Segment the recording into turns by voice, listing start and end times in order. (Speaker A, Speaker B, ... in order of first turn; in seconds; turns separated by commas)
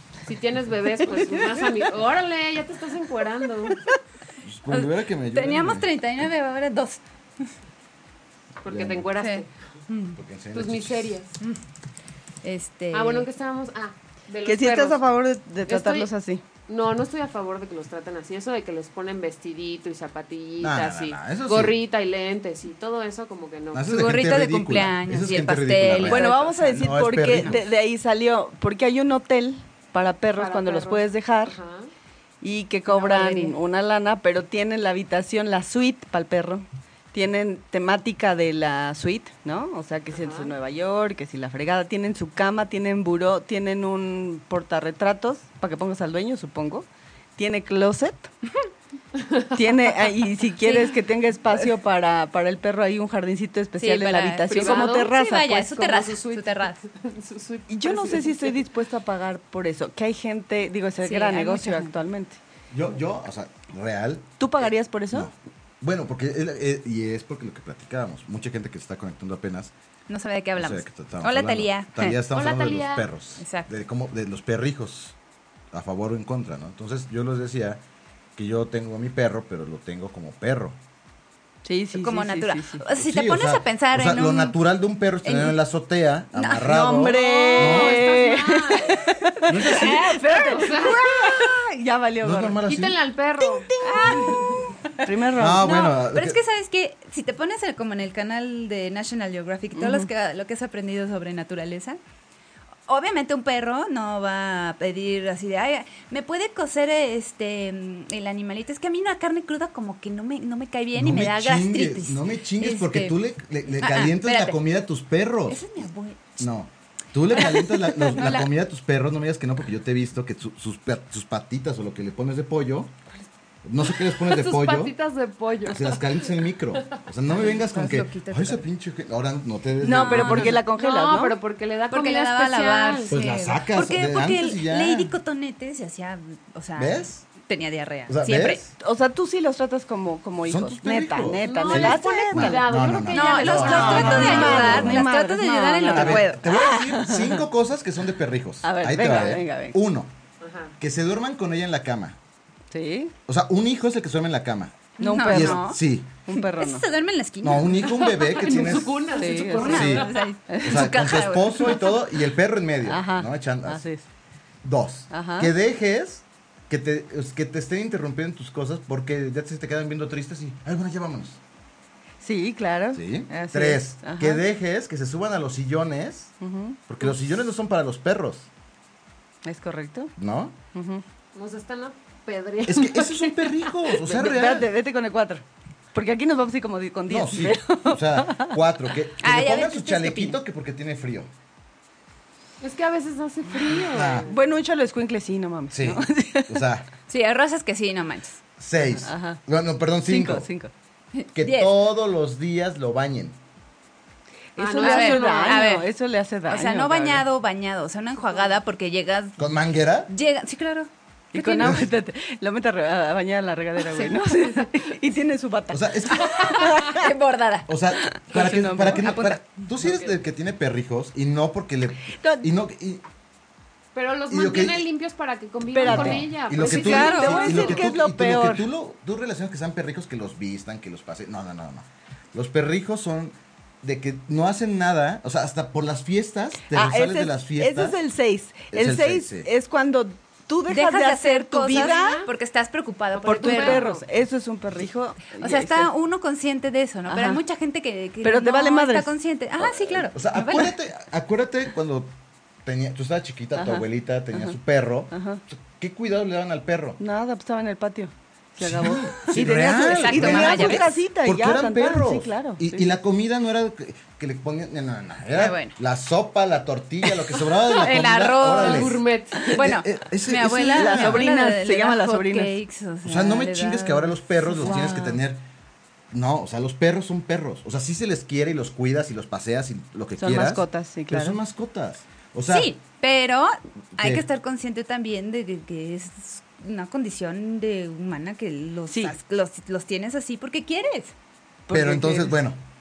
Speaker A: 0.2-3.8, Speaker B: 4.4-5.9, Speaker C: 4.7-7.0, Speaker A: 8.6-9.5, Speaker B: 8.7-9.1, Speaker C: 9.2-10.2, Speaker B: 10.1-11.2, Speaker A: 10.5-11.3, Speaker C: 12.4-13.3, Speaker A: 12.9-15.0, Speaker D: 14.4-16.4, Speaker A: 15.7-16.1, Speaker A: 16.7-23.9, Speaker B: 20.6-21.8, Speaker B: 23.7-27.6, Speaker C: 23.8-27.6, Speaker D: 26.0-31.6, Speaker A: 30.3-31.9, Speaker D: 32.4-48.3, Speaker C: 32.9-33.5, Speaker A: 40.1-40.5, Speaker A: 49.2-49.5, Speaker D: 49.5-55.6, Speaker C: 50.6-51.0, Speaker C: 53.8-56.8, Speaker A: 54.5-58.6, Speaker D: 57.7-62.4, Speaker C: 61.0-62.0, Speaker B: 62.7-69.7, Speaker D: 64.4-65.3, Speaker C: 70.1-72.2, Speaker B: 70.5-75.2, Speaker A: 72.3-73.0, Speaker C: 73.4-73.7, Speaker B: 75.7-77.8, Speaker B: 78.3-80.8, Speaker D: 81.6-82.8, Speaker C: 81.9-84.6, Speaker B: 82.9-88.0, Speaker C: 85.2-85.6, Speaker C: 86.3-86.7, Speaker D: 86.6-92.6, Speaker A: 87.1-89.1, Speaker B: 89.5-90.2, Speaker C: 89.8-90.6, Speaker A: 89.9-91.5, Speaker B: 92.2-93.0, Speaker A: 92.6-94.7, Speaker D: 93.4-94.3, Speaker C: 93.8-95.0, Speaker D: 95.0-95.6, Speaker B: 95.3-96.4, Speaker C: 95.6-102.0, Speaker D: 99.7-100.1, Speaker C: 102.9-113.2, Speaker B: 110.9-115.8, Speaker C: 113.7-114.6, Speaker C: 115.5-116.4, Speaker B: 116.4-122.9, Speaker C: 117.3-118.5, Speaker B: 123.6-124.9, Speaker A: 123.8-127.0, Speaker B: 125.7-130.6, Speaker C: 127.4-128.6, Speaker D: 129.8-131.4, Speaker C: 129.8-130.6, Speaker A: 130.7-133.2, Speaker C: 131.9-138.6, Speaker B: 133.1-135.1, Speaker B: 136.8-137.2, Speaker B: 138.1-138.7, Speaker D: 138.8-142.6, Speaker B: 140.4-145.1, Speaker A: 141.4-144.8, Speaker C: 143.1-146.4, Speaker D: 143.6-147.4, Speaker B: 145.9-150.1, Speaker D: 148.6-149.8, Speaker A: 150.4-150.8, Speaker B: 150.8-152.2, Speaker D: 152.7-153.1, Speaker B: 153.3-156.1, Speaker C: 155.0-158.2, Speaker D: 155.0-155.7, Speaker D: 156.2-156.9, Speaker B: 157.4-160.1, Speaker A: 157.8-160.2, Speaker D: 159.1-160.9, Speaker C: 159.4-162.0, Speaker B: 160.6-163.8, Speaker D: 162.8-164.0, Speaker B: 164.6-171.4, Speaker D: 165.1-165.5, Speaker D: 172.2-174.4, Speaker B: 172.9-176.3, Speaker D: 176.4-177.1, Speaker B: 176.9-178.5, Speaker D: 179.4-180.1, Speaker B: 180.2-180.6, Speaker D: 180.7-181.0, Speaker A: 181.3-183.7, Speaker B: 182.7-184.7, Speaker D: 184.0-188.6, Speaker B: 187.1-191.3, Speaker C: 189.2-190.4, Speaker A: 192.6-194.4, Speaker B: 193.9-194.3, Speaker D: 194.2-196.6, Speaker B: 195.7-196.9, Speaker C: 197.1-198.4, Speaker B: 198.6-200.5, Speaker D: 199.0-199.4, Speaker D: 200.0-200.7, Speaker C: 201.1-201.8, Speaker B: 201.3-203.4, Speaker D: 204.6-207.2, Speaker A: 204.6-205.7, Speaker C: 204.8-205.9, Speaker C: 206.5-209.5, Speaker B: 209.4-210.1, Speaker C: 210.1-211.8, Speaker D: 211.3-217.1, Speaker B: 211.6-211.9, Speaker B: 215.7-216.7, Speaker C: 216.8-217.7, Speaker B: 217.7-223.0, Speaker D: 218.1-219.3, Speaker C: 218.9-219.4, Speaker D: 222.1-222.5, Speaker A: 223.9-227.9, Speaker B: 224.3-224.9, Speaker D: 225.7-228.7, Speaker B: 225.8-238.0, Speaker C: 226.7-227.6, Speaker D: 236.7-242.2, Speaker B: 238.7-239.5, Speaker C: 240.7-243.9, Speaker A: 241.7-242.3, Speaker A: 243.2-244.0, Speaker D: 243.2-245.9, Speaker C: 245.4-250.7, Speaker D: 247.1-247.4, Speaker D: 248.2-249.1, Speaker B: 249.6-252.1, Speaker B: 252.6-257.0, Speaker D: 253.6-254.5, Speaker D: 255.1-255.4, Speaker D: 257.0-262.9, Speaker B: 258.6-271.2, Speaker C: 259.8-260.9, Speaker C: 265.3-265.8, Speaker C: 267.7-269.0, Speaker A: 268.5-269.6, Speaker C: 269.5-275.1, Speaker D: 270.7-272.5, Speaker B: 273.0-275.4, Speaker D: 274.6-275.1, Speaker B: 276.1-282.7, Speaker D: 280.2-281.4, Speaker C: 282.5-291.1, Speaker B: 284.0-284.2, Speaker D: 288.9-289.1, Speaker D: 291.7-292.4, Speaker B: 291.7-292.6